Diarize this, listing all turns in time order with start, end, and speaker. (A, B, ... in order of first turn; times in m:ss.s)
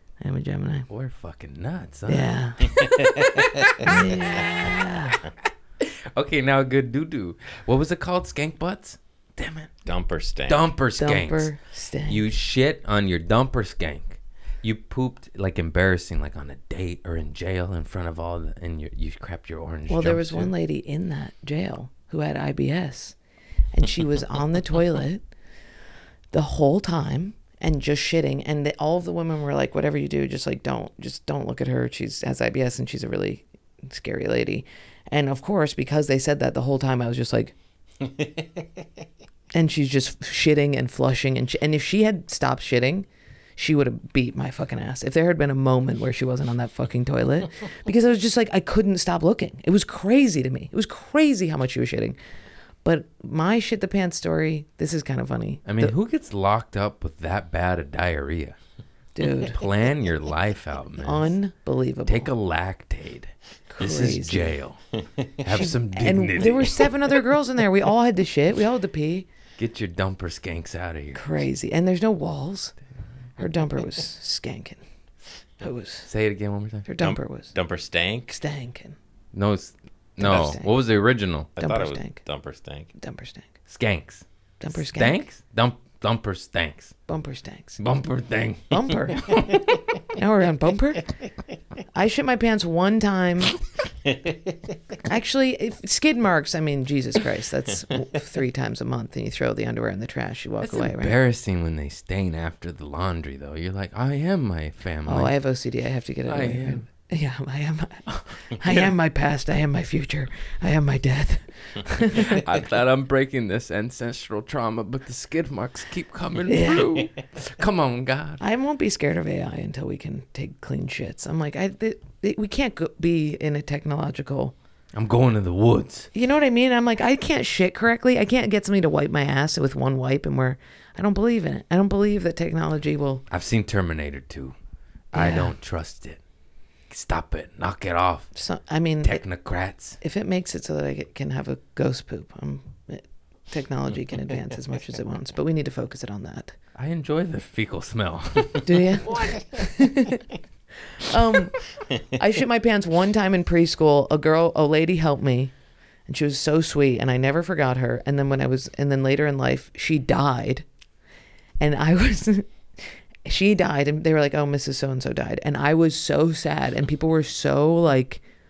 0:00.2-0:00.9 A
0:00.9-0:09.7 B
0:02.1-0:03.0 A
0:03.2-0:03.7 C
0:03.8-0:05.2 A
0:09.8-0:10.7 C
0:10.5-0:11.5 B
0:11.0-0:12.2 A
0:12.1-0:20.5 B
0:19.9-0:23.2 A
0:23.7-0:25.2 A
0:26.3-0:37.5 A
0:39.5-0:52.2 A
0:52.8-0:55.9 A
0:55.6-0:58.6 B
0:59.1-0:59.7 A
0:59.4-1:01.3 B
1:01.0-1:02.3 A
1:02.1-1:04.8 B
1:03.7-1:04.6 A
1:05.4-1:07.0 B
1:05.5-1:09.3 A
1:09.6-1:11.2 B
1:11.1-1:12.7 A
1:13.4-1:14.8 A
1:15.6-1:16.1 A
1:16.0-1:16.8 B
1:16.8-1:17.5 A
1:17.0-1:18.3 C
1:18.3-1:19.0 A
1:19.3-1:21.5 B
1:20.2-1:20.7 A
1:21.6-1:22.9 C
1:21.6-1:22.2 A
1:23.0-1:23.5 A
1:23.7-1:26.9 B
1:24.6-1:25.2 A
1:27.1-1:27.8 A
1:27.8-1:29.6 B
1:28.7-1:31.1 A
1:31.9-1:33.6 A
1:34.1-1:34.6 C
1:35.0-1:41.1 A
1:40.6-1:45.3 B
1:45.0-1:52.5 A
1:46.3-1:46.8 B
1:48.6-1:48.9 B
1:52.1-1:58.4 B
1:56.4-1:57.1 A
1:58.4-2:04.5 A
2:04.9-2:06.1 B
2:06.1-2:13.2 A
2:13.3-2:14.6 B
2:15.1-2:15.5 A
2:15.1-2:16.2 B
2:16.9-2:18.3 B
2:18.3-2:19.2 A
2:19.0-2:20.0 B
2:20.0-2:26.5 A
2:26.8-2:29.4 B
2:28.6-2:30.3 A
2:30.9-2:35.5 A
2:36.1-2:40.7 A
2:41.6-2:48.2 A